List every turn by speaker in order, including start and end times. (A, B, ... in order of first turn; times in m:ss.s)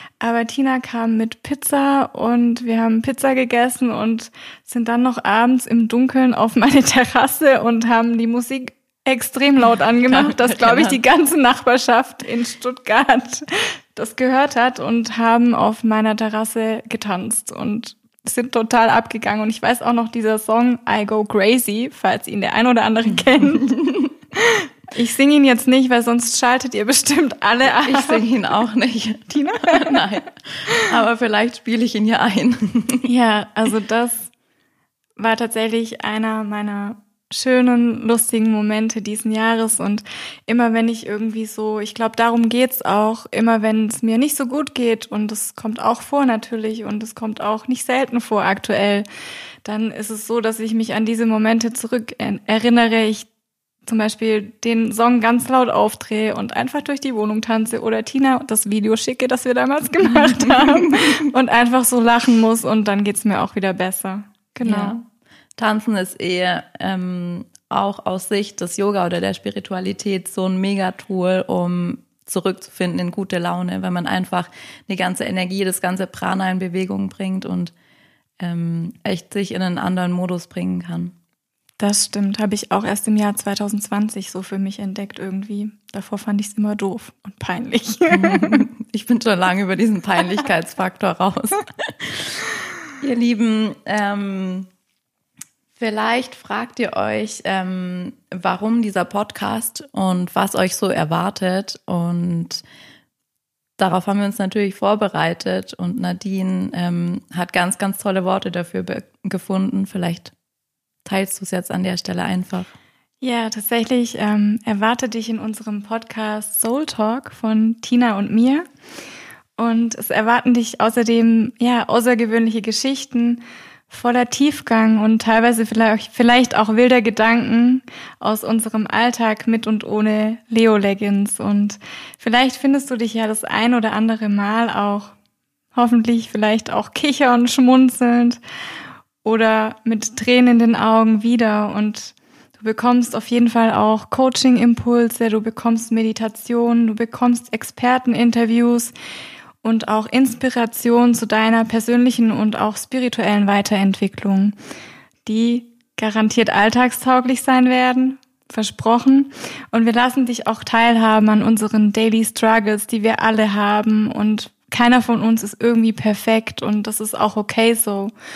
0:00.2-0:23.8 A
0:10.0-0:11.0 B
0:23.4-0:24.1 B
0:24.3-0:28.3 A
0:27.8-0:33.1 B
0:29.3-0:30.0 A
0:33.0-0:34.3 A
0:35.2-0:49.0 A
0:49.6-0:53.3 A
0:53.8-1:05.0 A
1:00.0-1:01.1 B
1:04.6-1:05.0 B
1:05.6-1:17.7 B
1:18.4-1:21.1 B
1:21.8-1:28.6 A
1:28.1-1:32.4 B
1:33.0-1:34.7 B
1:35.8-1:42.6 B
1:43.8-1:50.3 B
1:51.0-1:52.7 B
1:53.2-1:58.7 A
1:59.6-2:15.1 A
2:15.7-2:18.4 A
2:19.2-2:28.9 A
2:29.6-2:34.5 A
2:35.2-2:48.1 A